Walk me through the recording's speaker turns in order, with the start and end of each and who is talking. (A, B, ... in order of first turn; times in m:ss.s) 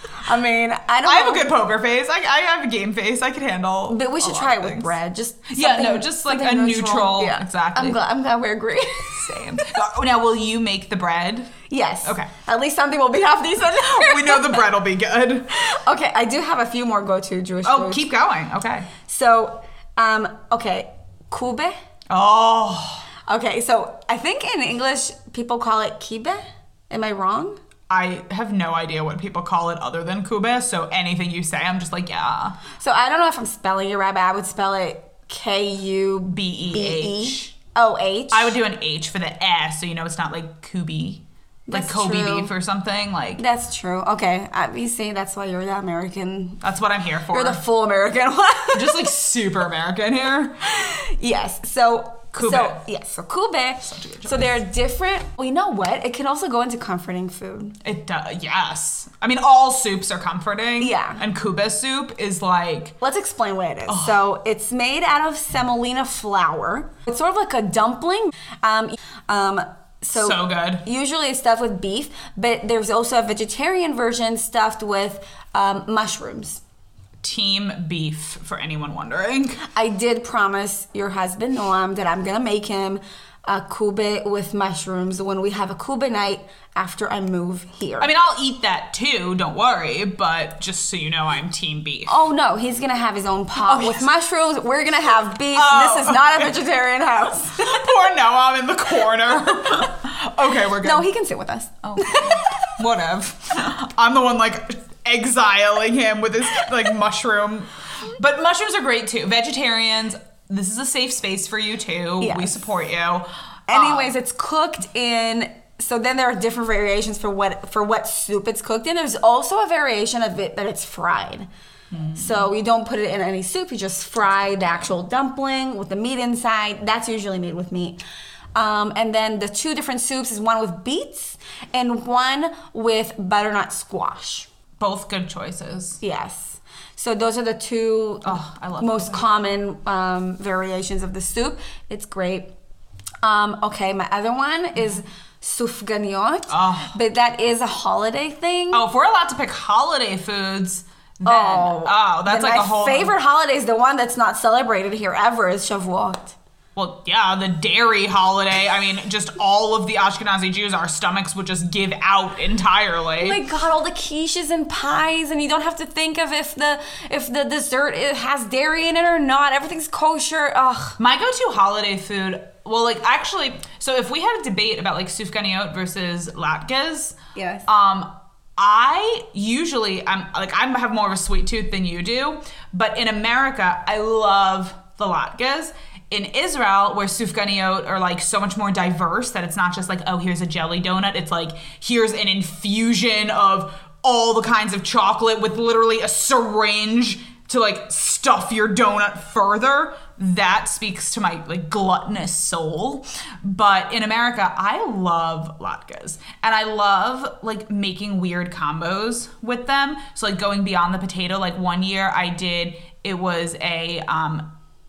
0:00.2-0:01.5 A
0:01.0-0:04.9 B
0:03.9-0:09.7 A
0:05.5-0:08.0 B
0:09.2-0:12.3 B
0:11.7-0:14.7 A
0:13.8-0:15.5 B
0:15.5-0:18.1 A
0:17.6-0:18.9 B
0:19.0-0:21.8 A
0:22.1-0:23.0 B
0:23.3-0:27.6 A
0:27.9-0:32.6 B
0:32.8-0:38.6 A
0:36.3-0:37.5 B
0:38.3-0:43.4 B
0:41.7-0:42.5 A
0:43.4-0:46.6 A
0:46.6-0:47.6 B
0:47.3-0:49.1 A
0:48.7-0:50.6 B
0:50.6-0:57.8 A
0:52.3-0:52.8 B
0:53.8-0:54.5 B
0:57.8-1:03.0 B
1:00.8-1:01.2 A
1:03.0-1:16.6 A
1:03.9-1:04.2 B
1:10.2-1:10.8 B
1:17.2-1:19.6 B
1:19.7-1:28.1 A
1:28.0-1:32.1 B
1:32.1-1:37.9 A
1:33.6-1:34.1 B
1:35.5-1:36.5 B
1:37.6-1:41.1 B
1:40.8-1:42.7 A
1:41.8-1:54.1 B
1:52.2-1:52.5 A
1:53.7-2:01.5 A
2:01.9-2:02.4 B
2:02.1-2:08.0 A
2:04.2-2:04.9 B
2:08.5-2:14.5 A
2:14.8-2:16.0 B
2:16.0-2:22.5 A
2:18.2-2:19.2 B
2:23.2-2:28.8 A
2:26.5-2:26.9 B
2:28.7-2:33.1 B
2:31.2-2:36.4 A
2:36.8-2:43.4 B
2:43.2-2:51.0 A
2:51.0-3:34.5 B
2:57.3-2:57.6 A